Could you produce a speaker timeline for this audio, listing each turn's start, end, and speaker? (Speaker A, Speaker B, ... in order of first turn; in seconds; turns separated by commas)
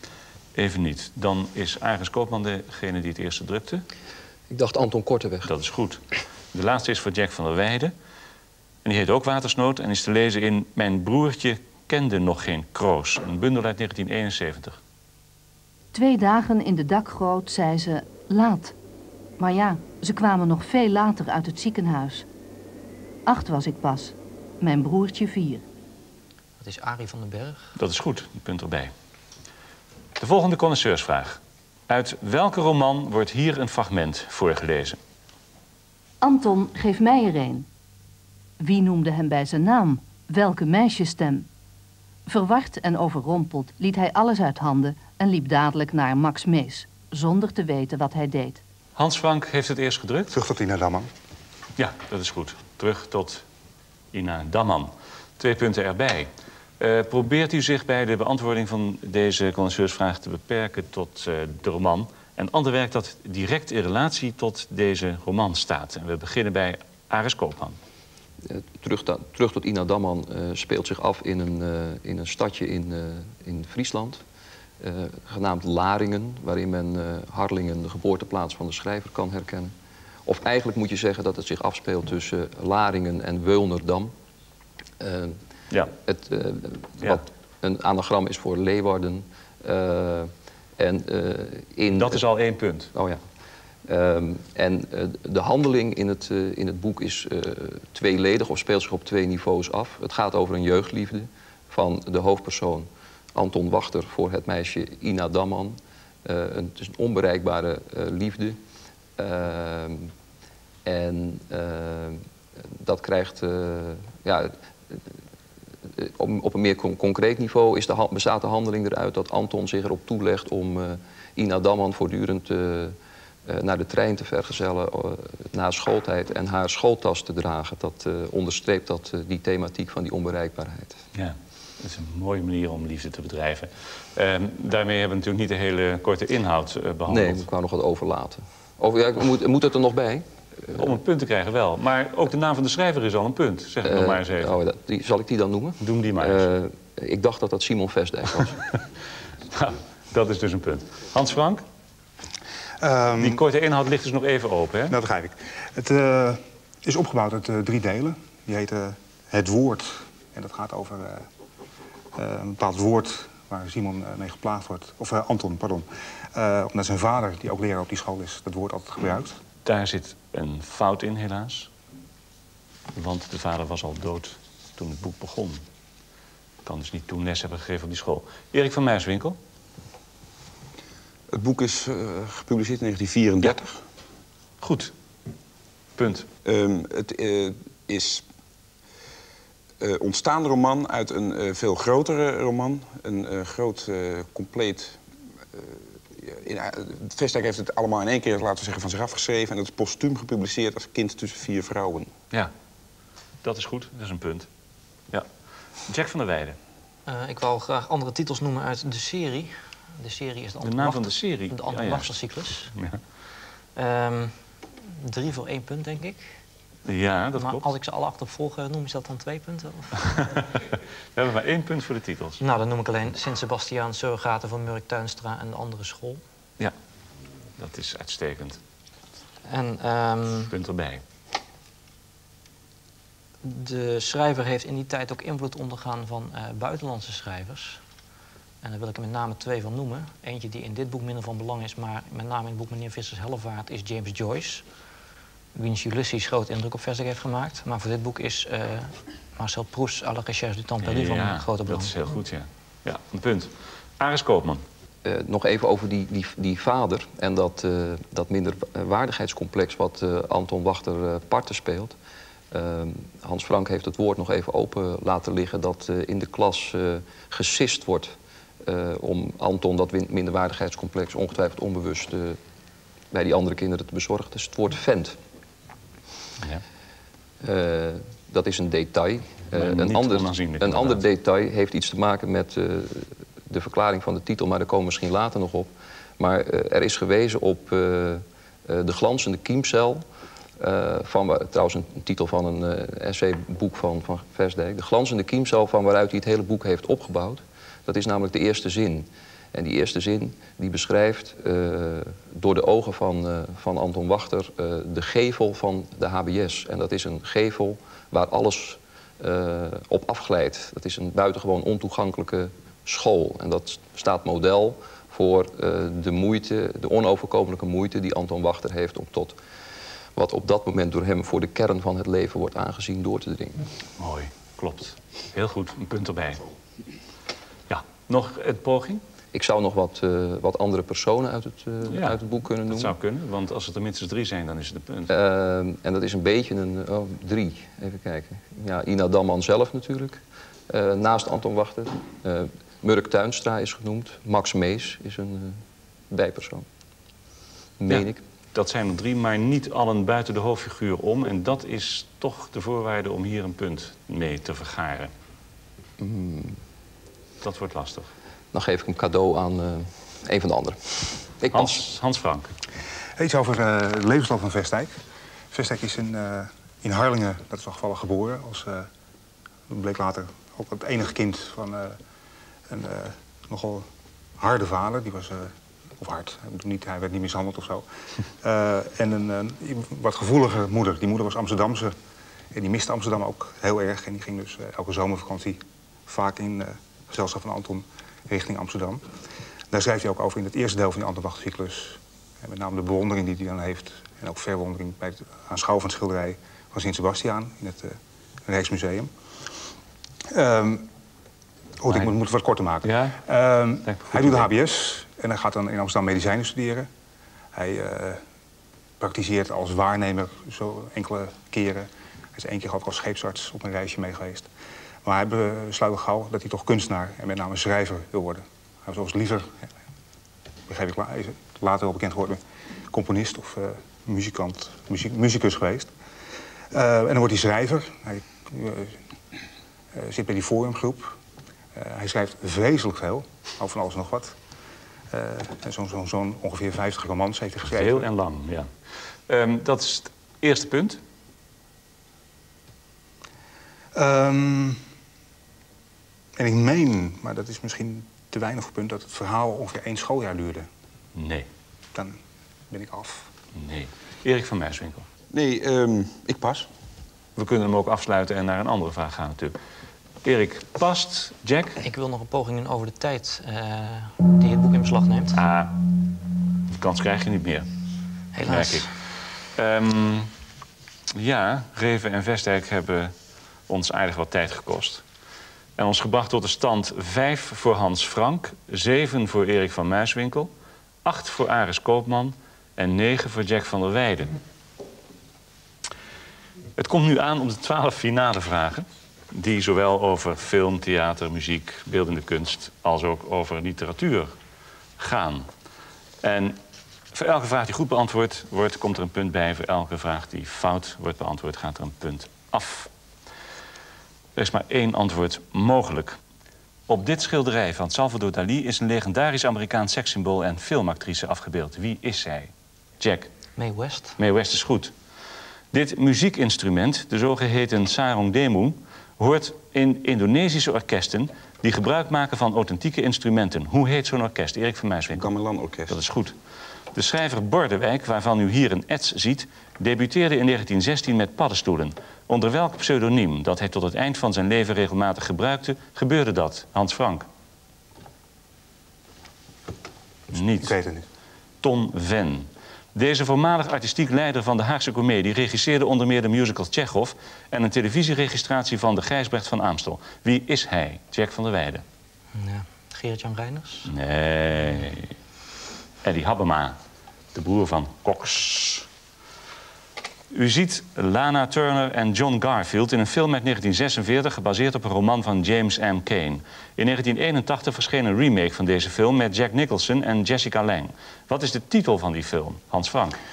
Speaker A: 0.6-3.8, Speaker B: 4.5-5.5, Speaker A: 5.5-6.0, Speaker A: 6.5-7.9, Speaker A: 8.8-14.8, Speaker C: 15.9-18.8, Speaker C: 19.4-22.3, Speaker C: 23.3-25.6, Speaker D: 26.6-27.8, Speaker A: 27.8-28.9, Speaker A: 30.2-35.0, Speaker C: 36.2-37.7, Speaker C: 38.6-41.5, Speaker C: 42.3-48.6, Speaker A: 49.0-50.4, Speaker E: 50.3-51.1, Speaker A: 51.8-53.5, Speaker A: 54.1-56.3, Speaker A: 56.8-67.8, Speaker B: 68.4-74.2, Speaker B: 74.8-79.7, Speaker B: 80.3-84.1, Speaker B: 85.0-85.4, Speaker B: 86.0-92.2, Speaker A: 91.9-92.9, Speaker B: 92.9-93.2, Speaker B: 93.9-108.6, Speaker B: 109.2-110.1, Speaker B: 110.8-115.2, Speaker B: 115.9-131.0, Speaker A: 131.2-137.4, Speaker B: 137.1-140.8, Speaker A: 140.7-144.6, Speaker B: 143.8-148.6, Speaker A: 145.8-146.5, Speaker A: 149.5-151.6, Speaker E: 152.8-153.4, Speaker A: 153.2-154.9, Speaker E: 154.9-161.3, Speaker E: 162.2-169.4, Speaker A: 169.7-171.7, Speaker A: 172.9-175.6, Speaker A: 176.7-179.4, Speaker F: 181.3-183.8, Speaker A: 184.6-184.9, Speaker A: 186.0-186.3, Speaker F: 186.4-188.3, Speaker F: 189.8-195.0, Speaker F: 195.5-202.1, Speaker A: 203.4-204.5, Speaker A: 205.9-206.6, Speaker D: 207.1-212.7, Speaker A: 210.6-213.0, Speaker D: 213.8-216.4, Speaker A: 216.9-217.7, Speaker D: 217.4-220.3, Speaker A: 221.2-222.4, Speaker D: 222.4-226.2, Speaker A: 227.6-228.6, Speaker D: 229.4-230.5, Speaker A: 230.5-231.0, Speaker D: 233.4-237.8, Speaker D: 238.6-244.7, Speaker D: 245.6-251.9, Speaker A: 250.8-254.6, Speaker B: 255.0-262.0, Speaker B: 262.5-272.4, Speaker B: 273.1-275.2, Speaker B: 277.4-290.1, Speaker A: 279.5-281.0, Speaker B: 290.6-319.4, Speaker B: 320.1-323.7, Speaker A: 324.0-326.4, Speaker A: 327.7-329.0, Speaker B: 329.3-332.9, Speaker A: 331.9-335.1, Speaker B: 335.1-346.7, Speaker B: 347.8-348.2, Speaker A: 347.9-355.1, Speaker B: 356.0-356.6, Speaker A: 357.4-358.1, Speaker B: 358.5-361.8, Speaker A: 361.5-362.5, Speaker E: 363.2-365.0, Speaker E: 365.5-368.9, Speaker E: 369.7-372.0, Speaker E: 372.7-373.9, Speaker E: 374.4-377.9, Speaker E: 378.4-381.9, Speaker E: 382.5-389.1, Speaker E: 389.7-399.1, Speaker E: 400.3-400.9, Speaker E: 401.8-406.9, Speaker A: 402.8-403.2, Speaker A: 403.9-404.5, Speaker E: 407.6-408.2, Speaker E: 409.0-414.5, Speaker E: 415.1-419.7, Speaker E: 420.7-425.9, Speaker E: 426.7-429.0, Speaker E: 429.9-431.2, Speaker E: 431.8-434.4, Speaker E: 435.1-438.1, Speaker A: 437.6-438.7, Speaker A: 439.3-441.0, Speaker E: 443.9-444.8, Speaker E: 446.4-450.7, Speaker A: 451.1-451.5, Speaker E: 451.9-452.2, Speaker E: 452.7-453.3, Speaker A: 453.5-455.1, Speaker F: 455.3-456.7, Speaker A: 457.4-459.6, Speaker A: 460.2-461.8, Speaker D: 461.8-465.4, Speaker A: 465.3-465.9, Speaker A: 466.7-467.7, Speaker D: 468.4-468.9, Speaker A: 468.4-470.3, Speaker A: 471.1-473.1, Speaker A: 473.7-475.0, Speaker A: 475.8-480.5, Speaker A: 481.0-484.4, Speaker A: 486.8-494.3, Speaker A: 495.0-495.5, Speaker A: 496.2-496.6, Speaker A: 497.1-502.9, Speaker A: 504.4-506.2, Speaker A: 506.9-513.3, Speaker D: 513.6-514.2, Speaker A: 514.2-514.9, Speaker A: 515.7-525.3, Speaker F: 525.1-526.0, Speaker A: 525.9-526.4, Speaker A: 526.9-537.3, Speaker A: 540.3-540.8, Speaker E: 540.5-541.1, Speaker A: 541.6-551.8, Speaker D: 552.3-553.9, Speaker A: 553.9-555.2, Speaker A: 556.0-556.8, Speaker A: 557.3-558.9, Speaker A: 560.3-573.2